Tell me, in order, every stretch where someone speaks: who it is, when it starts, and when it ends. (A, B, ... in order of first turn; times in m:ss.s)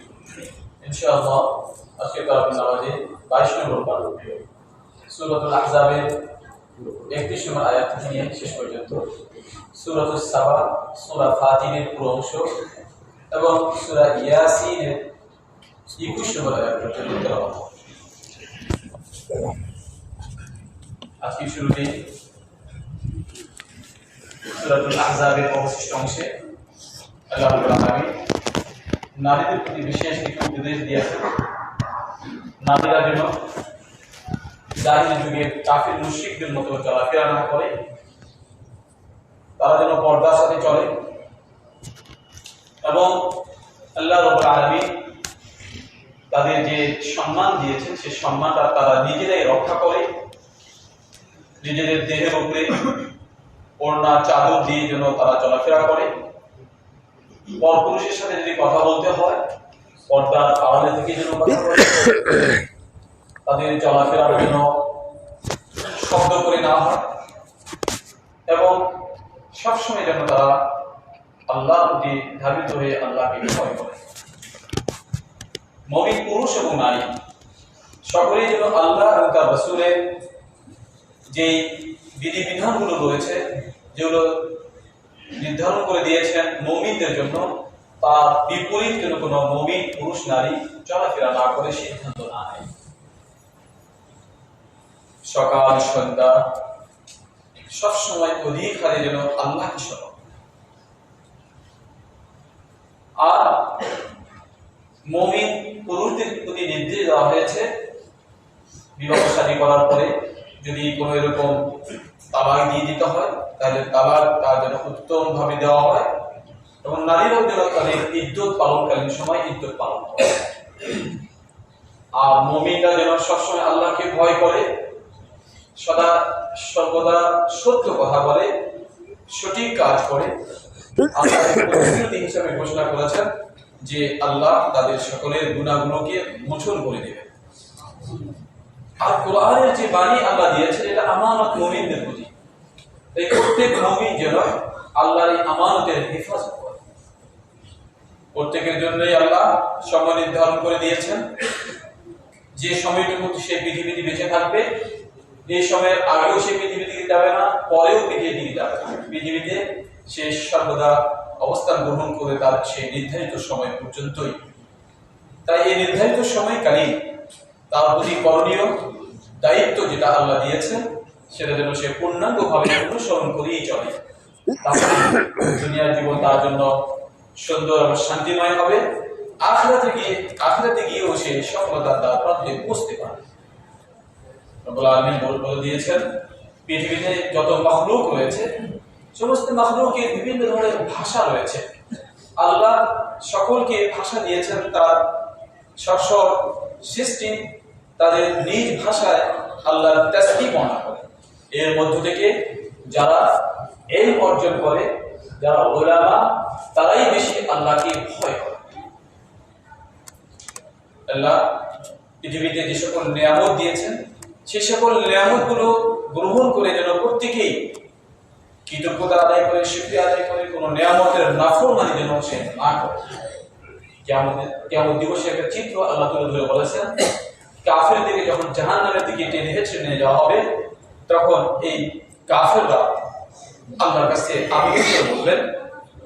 0:00.8-0:04.2 A
0:05.1-0:06.3 A
0:07.1-0:09.1 A
0:09.7-0:12.6 A
0:13.3-0:15.0 A
0:15.9-0:17.7 A
0:21.2-0:22.1 A
0:24.5-0:26.4 A
0:27.3-0:28.2 A
0:29.2-0:31.3 A
0:32.6-0:33.3 A
0:34.8-0:37.8 A
0:39.6-0:41.0 A
0:42.8-0:43.4 A
0:44.0-0:44.9 A
0:46.3-0:50.1 A
0:51.6-0:52.9 A
0:53.8-0:56.1 A
0:57.6-0:59.4 A
1:00.1-1:02.2 A
1:03.4-1:04.9 A
1:05.9-1:07.1 A
1:08.5-1:08.8 A
1:09.5-1:10.6 A
1:11.5-1:14.0 A
1:15.9-1:17.1 A
1:18.0-1:20.0 A
1:21.3-1:24.6 A
1:25.4-1:27.5 A
1:28.0-1:32.7 A
1:35.2-1:36.5 A
1:37.7-1:40.2 A
1:43.2-1:43.8 A
1:45.1-1:47.7 A
1:49.0-1:51.8 A
1:52.3-1:56.1 A
1:56.8-2:00.4 A
2:02.2-2:04.7 A
2:05.8-2:08.5 A
2:09.3-2:10.3 A
2:11.1-2:13.3 A
2:13.8-2:17.3 A
2:19.0-2:22.3 A
2:23.1-2:26.8 A
2:28.4-2:31.3 A
2:32.6-2:34.7 A
2:35.5-2:44.4 A
2:45.5-2:47.0 A
2:47.7-2:54.0 A
2:54.6-2:56.8 A
2:57.4-2:58.8 A
2:59.4-3:03.2 A
3:04.6-3:06.1 A
3:06.7-3:08.5 A
3:09.2-3:11.7 A
3:12.4-3:15.1 A
3:15.8-3:22.4 A
3:22.9-3:28.7 A
3:31.1-3:31.4 A
3:32.2-3:37.7 A
3:38.7-3:43.1 A
3:44.0-3:47.0 A
3:47.6-3:50.5 A
3:51.1-3:53.0 A
3:53.8-3:55.5 A